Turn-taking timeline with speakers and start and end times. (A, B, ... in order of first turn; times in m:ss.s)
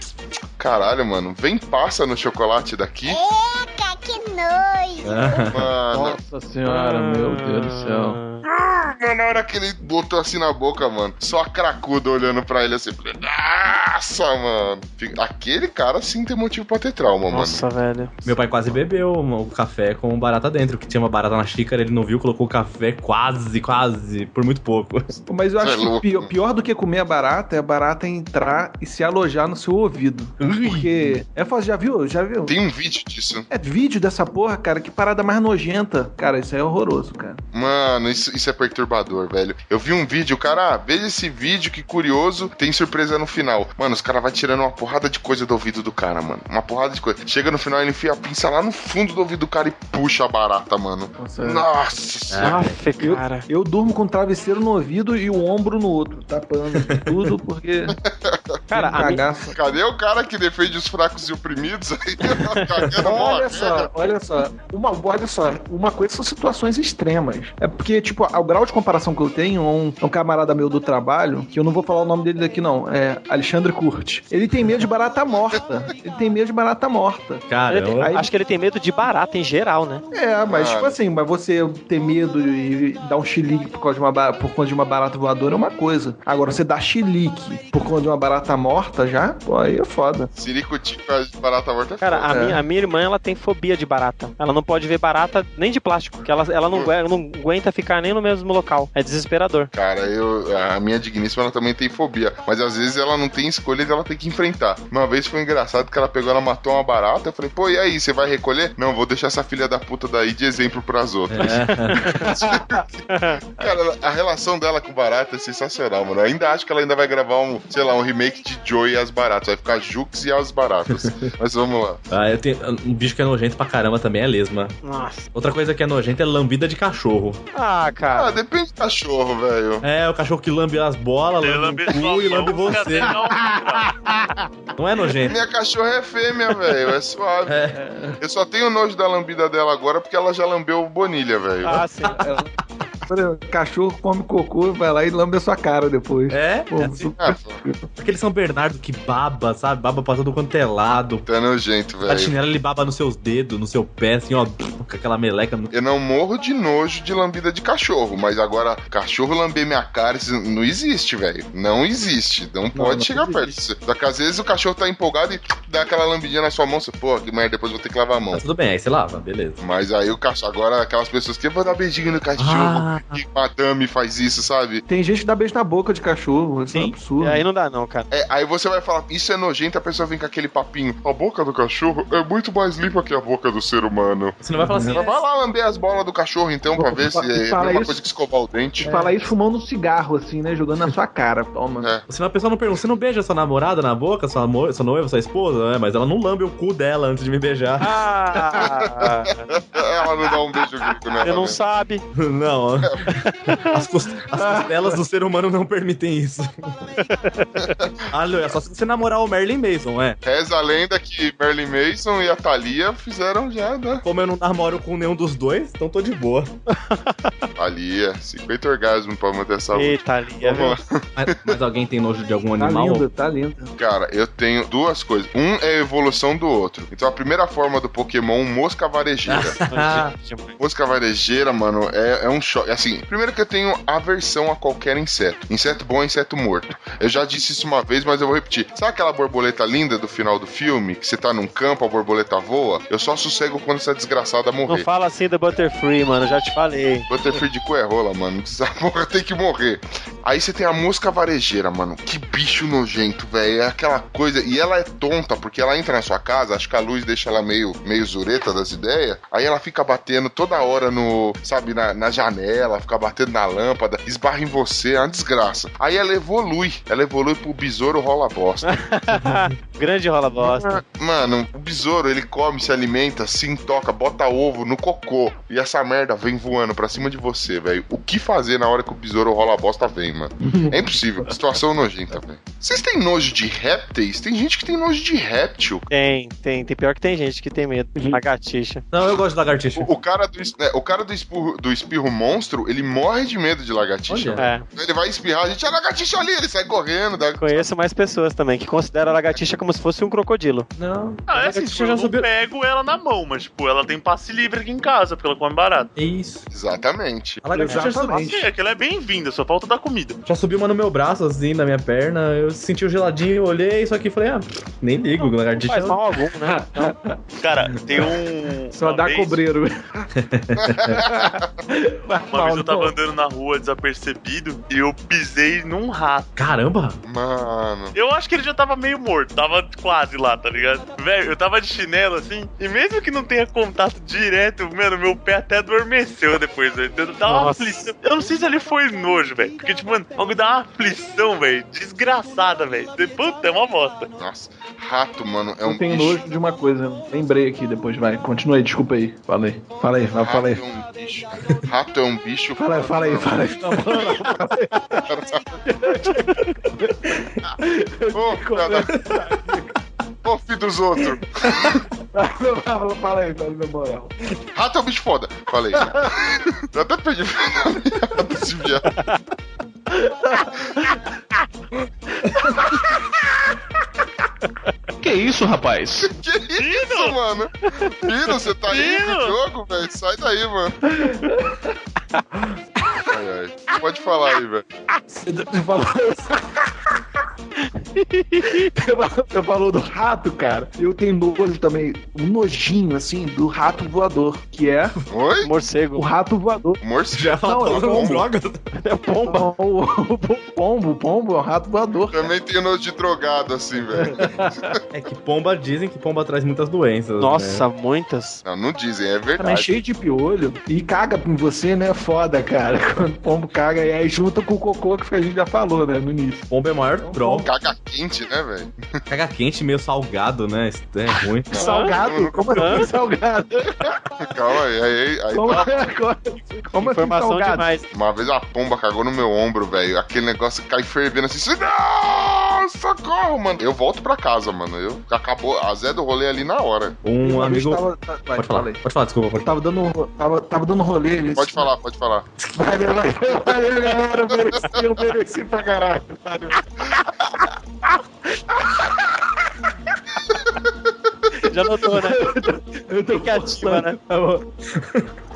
0:00.6-0:03.2 A
0:03.1-0:05.6 B
0:05.0-0:05.7 C
0:05.5-0:06.2 A
0:05.9-0:08.2 D
0:06.7-0:08.4 E
0:08.5-0:17.6 A
0:17.3-0:18.1 E
0:18.2-0:25.2 C
0:25.3-0:32.6 D
0:25.6-0:26.3 A
0:30.4-0:31.2 C
0:32.5-0:33.5 A
0:33.5-0:37.4 D
0:37.5-0:52.7 A
0:51.2-0:51.6 D
0:52.3-0:52.8 C
0:52.4-0:53.5 E
0:53.0-0:58.0 D
0:56.8-0:57.1 C
0:58.0-0:58.6 A
0:58.7-0:59.2 E
0:58.7-0:59.6 D
0:59.5-1:04.1 A
1:02.2-1:02.6 E
1:03.0-1:17.5 D
1:17.5-1:18.2 C
1:17.7-1:20.0 E
1:18.0-1:18.2 D
1:20.1-1:30.3 D
1:20.5-1:21.0 A
1:30.4-1:32.3 A
1:32.0-1:39.7 E
1:32.3-1:32.6 D
1:39.7-1:53.0 A
1:51.3-1:52.1 C
1:52.0-1:52.8 D
1:53.1-1:53.4 E
1:53.6-2:02.0 A
2:00.9-2:01.3 C
2:02.1-2:04.8 C
2:04.8-2:05.3 E
2:05.3-2:07.4 C
2:07.5-2:08.4 E
2:08.1-2:09.8 A
2:09.8-2:13.2 C
2:11.4-2:14.0 F
2:14.8-2:15.4 C
2:15.3-2:17.7 A
2:17.5-2:17.8 C
2:17.7-2:18.2 D
2:18.2-2:21.8 A
2:21.6-2:22.2 E
2:22.2-2:22.6 D
2:23.1-2:27.9 D
2:26.3-2:27.0 C
2:27.0-2:27.6 A
2:28.0-2:31.2 C
2:31.2-2:32.3 A
2:32.0-2:35.7 C
2:35.7-2:48.4 A
2:42.7-2:43.6 C
2:48.3-2:49.6 C
2:49.6-2:54.8 A
2:52.4-2:53.2 C
2:54.9-2:57.4 D
2:56.7-2:58.1 E
2:58.1-3:09.0 A
3:04.4-3:05.0 C
3:04.6-3:05.1 D
3:06.8-3:08.0 D
3:08.8-3:09.2 C
3:08.8-3:11.9 D
3:12.1-3:17.9 C
3:17.8-3:19.4 E
3:18.6-3:21.6 A
3:21.2-3:22.0 E
3:22.2-3:26.9 C
3:23.2-3:23.7 E
3:24.4-3:24.9 D
3:27.0-3:27.7 E
3:27.6-3:27.9 A
3:28.1-3:30.2 C
3:30.2-3:34.0 A
3:34.0-3:36.5 C
3:36.9-3:37.3 E
3:37.6-3:41.6 A
3:39.7-3:40.8 E
3:41.2-3:43.1 C
3:42.6-3:43.7 D
3:43.8-3:49.6 A
3:49.3-3:50.1 C
3:49.7-3:50.5 E
3:50.6-4:04.9 A
4:04.7-4:07.1 E
4:07.1-4:28.8 A
4:28.7-4:30.8 E
4:30.4-4:45.9 A
4:45.9-4:48.8 E
4:48.9-4:49.9 C
4:49.8-4:57.7 A
4:54.1-4:54.5 C
4:54.4-4:54.6 E
4:57.4-5:00.7 E
5:00.8-5:02.3 C
5:01.3-5:05.9 F
5:06.0-5:06.5 C
5:06.5-5:07.4 A
5:07.4-5:08.3 C
5:07.5-5:08.5 D
5:07.7-5:10.2 F
5:10.3-5:16.0 C
5:15.6-5:16.9 E
5:16.5-5:17.2 D
5:17.4-5:19.4 F
5:18.7-5:19.9 D
5:20.2-5:21.0 C
5:20.6-5:21.4 A
5:20.9-5:22.9 D
5:22.3-5:26.3 F
5:26.4-5:27.0 C
5:27.0-5:28.0 A
5:27.9-5:44.1 F
5:37.3-5:37.9 E
5:44.2-5:46.2 A
5:45.6-5:50.6 D
5:50.2-5:54.4 A
5:52.6-5:55.1 D
5:55.1-5:55.6 A
5:55.6-5:59.6 D
5:58.1-5:58.9 A
5:59.0-5:59.3 C
6:00.2-6:01.8 A
6:01.5-6:04.1 D
6:04.5-6:09.0 A
6:05.7-6:06.2 D
6:09.9-6:11.0 D
6:12.2-6:13.3 D
6:15.0-6:16.1 D
6:16.0-6:20.8 A
6:16.6-6:17.2 F
6:18.7-6:19.4 F
6:20.8-6:21.7 D
6:22.8-6:23.1 D
6:23.1-6:24.6 A
6:25.1-6:27.0 D
6:28.0-6:28.7 E
6:28.4-6:35.0 D
6:35.1-6:35.5 A
6:35.4-6:36.1 E
6:35.9-6:36.8 D
6:36.8-6:38.3 A
6:37.1-6:38.6 C
6:37.4-6:38.2 D
6:38.8-6:39.5 E
6:39.3-6:42.3 D
6:42.1-6:44.5 A
6:44.0-6:44.8 D
6:44.9-6:47.6 C
6:47.2-6:48.4 E
6:48.4-6:49.8 A
6:49.4-6:56.4 D
6:56.5-6:57.5 C
6:57.0-6:57.5 D
6:57.4-6:59.0 A
6:59.1-7:01.5 C
7:01.5-7:02.9 A
7:01.5-7:03.9 D
7:01.6-7:02.0 E
7:02.6-7:02.8 E
7:04.2-7:05.9 A
7:05.3-7:07.7 D
7:06.8-7:07.8 E
7:07.9-7:17.0 A
7:17.0-7:17.8 C
7:17.2-7:18.8 D
7:18.4-7:19.5 C
7:19.4-7:21.7 D
7:21.4-7:22.3 A
7:22.4-7:29.3 D
7:31.4-7:32.3 E
7:31.8-7:34.4 D
7:33.1-7:34.0 E
7:34.6-7:35.1 C